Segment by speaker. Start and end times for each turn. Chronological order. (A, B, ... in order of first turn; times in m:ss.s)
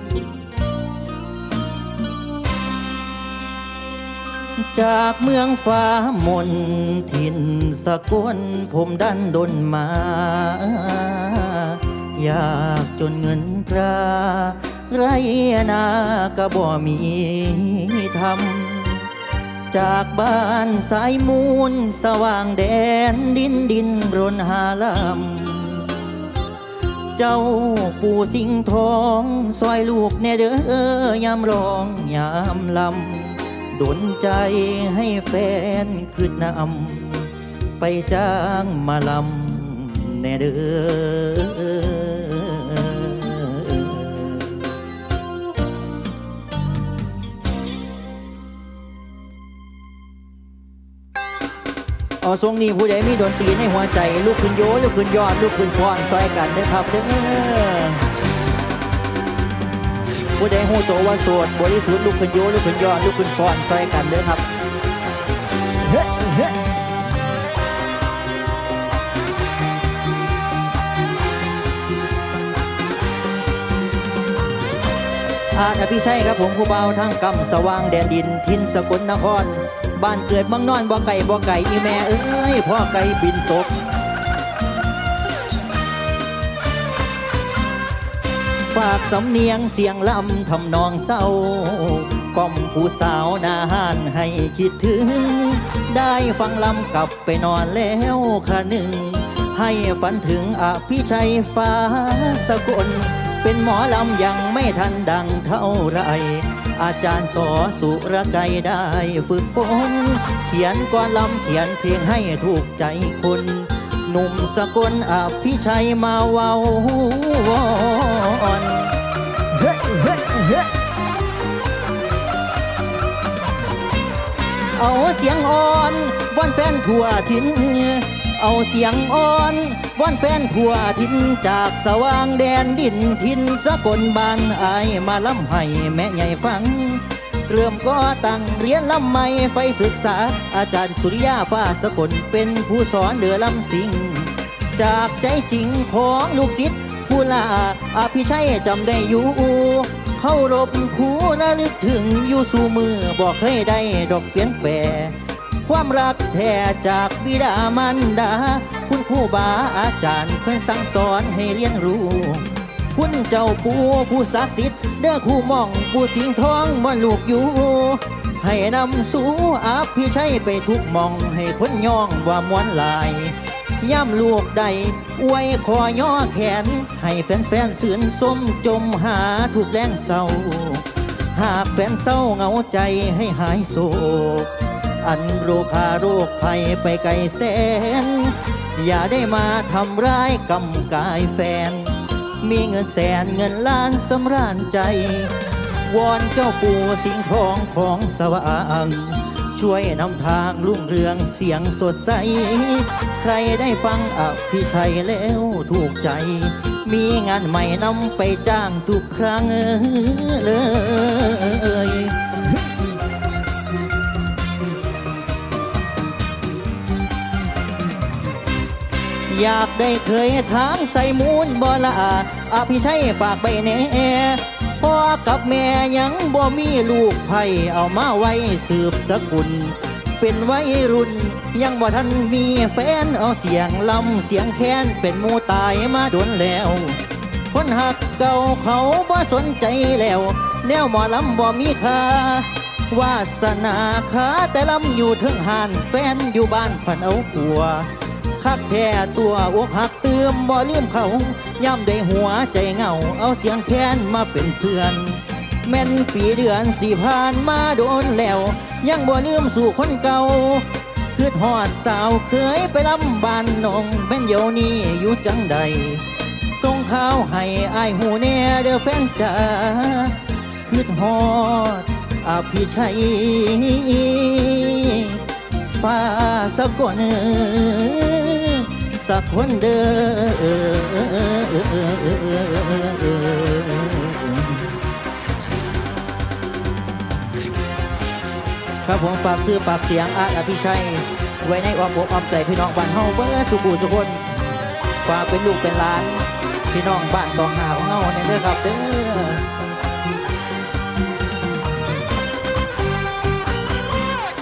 0:04.6-0:19.1 A
0:19.7-0:26.0 A
0:27.2-0:44.8 A
0:52.2-0:58.1 A
1:00.4-1:04.4 A
1:15.5-1:23.8 A
1:28.7-1:59.0 A
1:59.6-2:00.6 A
2:04.7-3:15.3 A
3:15.9-3:32.2 A
3:39.3-4:44.7 A
4:48.8-4:54.2 A
4:55.0-4:59.5 A